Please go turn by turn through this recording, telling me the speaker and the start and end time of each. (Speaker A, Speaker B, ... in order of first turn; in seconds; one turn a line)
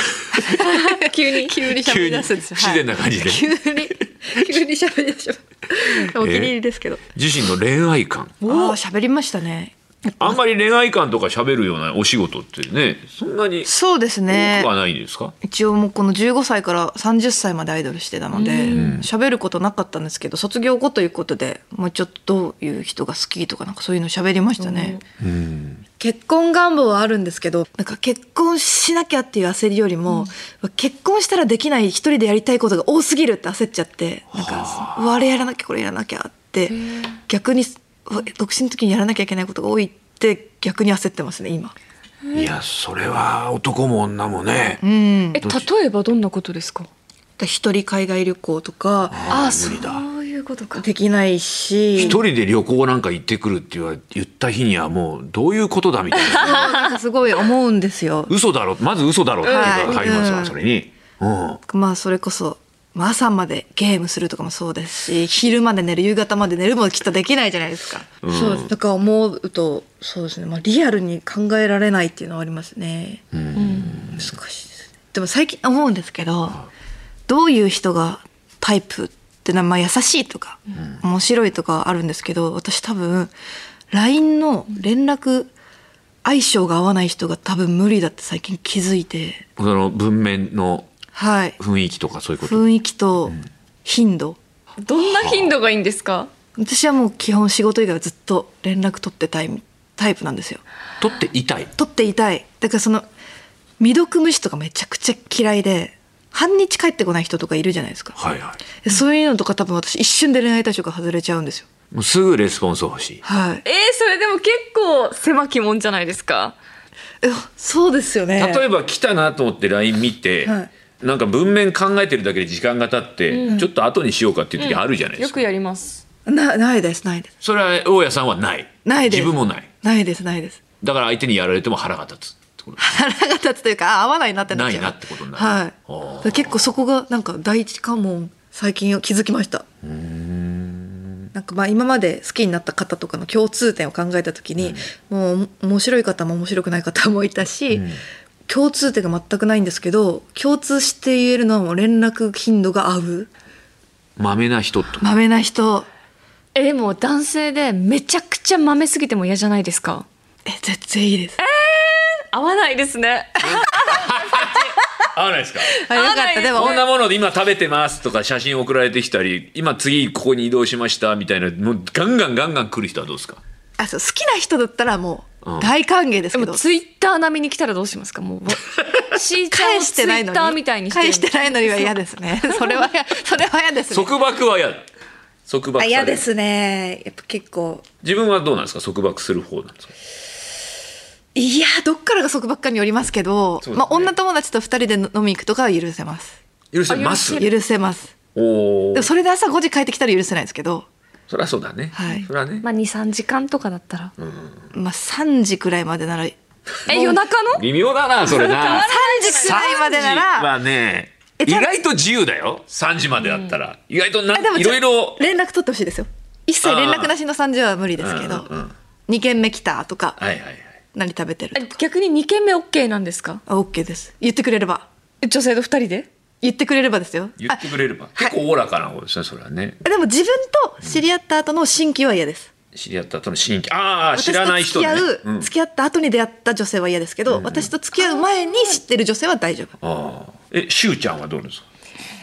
Speaker A: 0.3-7.0
Speaker B: 0.5-1.7
Speaker C: 1.8-3.5
Speaker C: 6.2-6.5
Speaker C: 7.1-8.4
Speaker A: 8.4-10.4
Speaker B: 8.4-8.8
Speaker C: 10.2-13.7
Speaker A: 13.7-14.7
Speaker C: 14.3-15.3
Speaker A: 15.4-25.0
Speaker B: 18.3-19.0
Speaker C: 18.7-19.1
Speaker B: 24.6-25.0
Speaker C: 25.2-25.9
Speaker A: 26.0-36.8
Speaker C: 34.3-35.1
Speaker B: 36.7-37.2
Speaker A: 37.3-41.8
Speaker C: 42.3-44.8
Speaker A: 44.8-45.4
Speaker B: 45.4-46.9
Speaker C: 45.4-45.7
Speaker A: 47.4-49.4
Speaker C: 49.1-50.0
Speaker B: 49.3-50.8
Speaker A: 50.8-52.2
Speaker C: 52.0-56.7
Speaker A: 56.2-58.3
Speaker B: 56.3-57.0
Speaker C: 58.3-61.6
Speaker B: 59.4-60.1
Speaker A: 59.5-60.5
Speaker A: 61.7-73.3
Speaker C: 68.2-68.7
Speaker C: 73.3-74.3
Speaker B: 73.5-74.0
Speaker A: 74.0-76.7
Speaker A: 77.3-83.3
Speaker A: 83.9-85.5
Speaker A: 86.2-89.5
Speaker C: 89.6-90.9
Speaker A: 91.1-91.6
Speaker C: 91.6-92.7
Speaker A: 92.4-94.4
Speaker B: 94.8-96.3
Speaker C: 95.1-95.5
Speaker A: 96.6-100.6
Speaker C: 101.0-101.7
Speaker A: 101.8-103.1
Speaker A: 103.8-108.2
Speaker C: 108.2-108.6
Speaker A: 108.8-111.7
Speaker C: 111.9-113.2
Speaker A: 113.2-113.6
Speaker B: 113.7-116.5
Speaker A: 117.2-118.7
Speaker C: 118.4-125.4
Speaker A: 120.4-120.7
Speaker B: 123.3-123.6
Speaker B: 124.6-126.0
Speaker A: 126.3-127.3
Speaker C: 127.4-129.7
Speaker A: 128.8-130.6
Speaker C: 130.8-132.9
Speaker A: 132.8-139.7
Speaker C: 134.5-136.7
Speaker C: 139.8-141.3
Speaker A: 141.3-147.9
Speaker C: 147.7-148.0
Speaker A: 148.5-153.3
Speaker C: 154.2-155.1
Speaker A: 155.0-155.9
Speaker B: 156.6-160.1
Speaker A: 160.5-161.4
Speaker B: 161.4-164.7
Speaker C: 163.4-165.8
Speaker B: 165.7-166.8
Speaker A: 165.8-166.8
Speaker C: 166.5-173.4
Speaker A: 173.8-176.7
Speaker C: 175.4-175.7
Speaker B: 176.3-181.9
Speaker A: 179.5-184.1
Speaker B: 182.5-182.8
Speaker C: 183.9-184.8
Speaker C: 185.5-186.3
Speaker A: 185.8-187.8
Speaker C: 188.0-189.9
Speaker A: 191.3-196.4
Speaker C: 193.6-194.1
Speaker C: 196.7-197.5
Speaker B: 196.9-197.5
Speaker A: 197.3-198.2
Speaker C: 198.3-199.1
Speaker A: 198.9-200.9
Speaker C: 201.3-202.7
Speaker A: 201.9-202.3
Speaker B: 202.1-204.1
Speaker C: 204.2-204.7
Speaker A: 204.7-207.2
Speaker B: 206.9-207.6
Speaker C: 207.5-215.2
Speaker B: 208.2-209.7
Speaker A: 208.7-210.5
Speaker A: 211.4-211.7
Speaker B: 213.2-213.5
Speaker A: 214.3-218.5
Speaker C: 216.6-217.1
Speaker C: 218.0-218.7
Speaker A: 219.1-220.2
Speaker C: 220.2-220.7
Speaker A: 220.9-221.8
Speaker B: 221.6-223.4
Speaker A: 223.5-224.9
Speaker B: 225.2-226.1
Speaker A: 226.4-228.4
Speaker C: 227.4-229.8
Speaker A: 229.8-232.5
Speaker C: 232.7-235.5
Speaker A: 234.2-239.8
Speaker C: 237.3-237.7
Speaker C: 239.8-241.7